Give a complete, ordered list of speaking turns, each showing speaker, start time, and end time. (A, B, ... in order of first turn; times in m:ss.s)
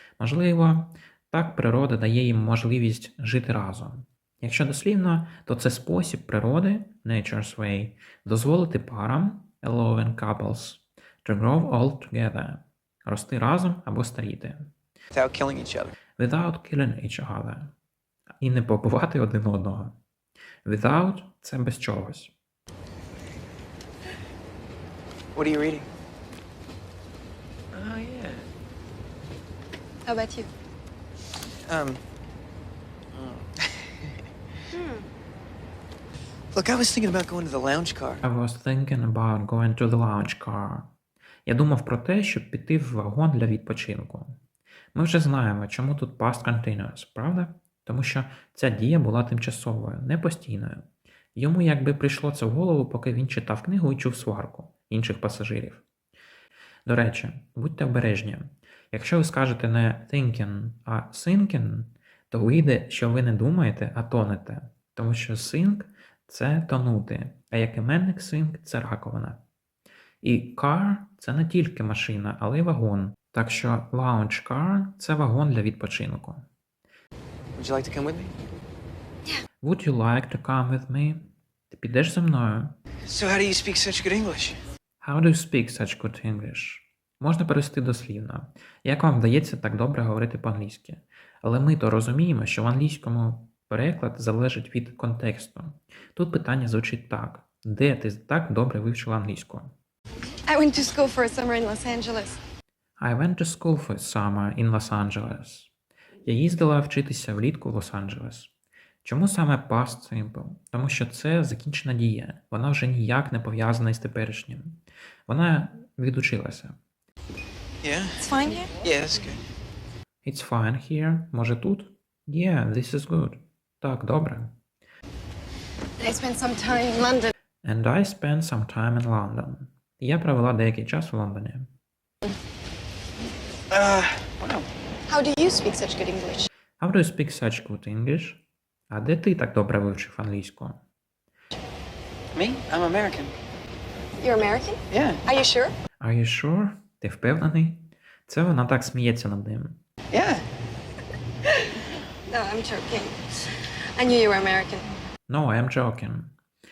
0:00.2-0:14.7 A
0:15.1-0:15.9 B
0:16.2-0:17.7 A
0:18.4-0:20.0 A
0:20.6-0:22.3 A
0:25.3-0:25.9 B
0:27.7-0:28.5 B
0:30.0-0:30.5 C
0:31.7-0:32.0 B
0:33.1-0:34.2 B
0:34.7-0:35.1 C
0:36.5-0:38.2 B
0:38.2-0:40.9 A
0:41.4-0:44.4 A
0:44.9-0:50.8 A
0:51.4-0:55.8 A
0:56.8-1:09.4 A
1:10.2-1:16.4 A
1:17.6-1:18.3 B
1:19.6-1:22.8 A
1:23.0-1:24.6 B
1:25.0-1:39.7 A
1:40.4-1:42.4 C
1:43.0-1:45.7 A
1:46.2-1:48.5 A
1:49.0-1:56.8 A
1:57.8-1:59.4 B
1:58.2-1:58.7 C
2:00.2-2:04.6 A
2:06.0-2:07.3 C
2:07.6-2:11.7 A
2:13.7-2:14.7 B
2:15.1-2:16.5 C
2:16.8-2:20.8 A
2:22.3-2:23.3 B
2:24.2-2:25.7 C
2:24.9-2:25.2 B
2:26.0-2:29.8 A
2:30.1-2:30.4 B
2:32.3-2:34.9 C
2:35.3-2:36.3 A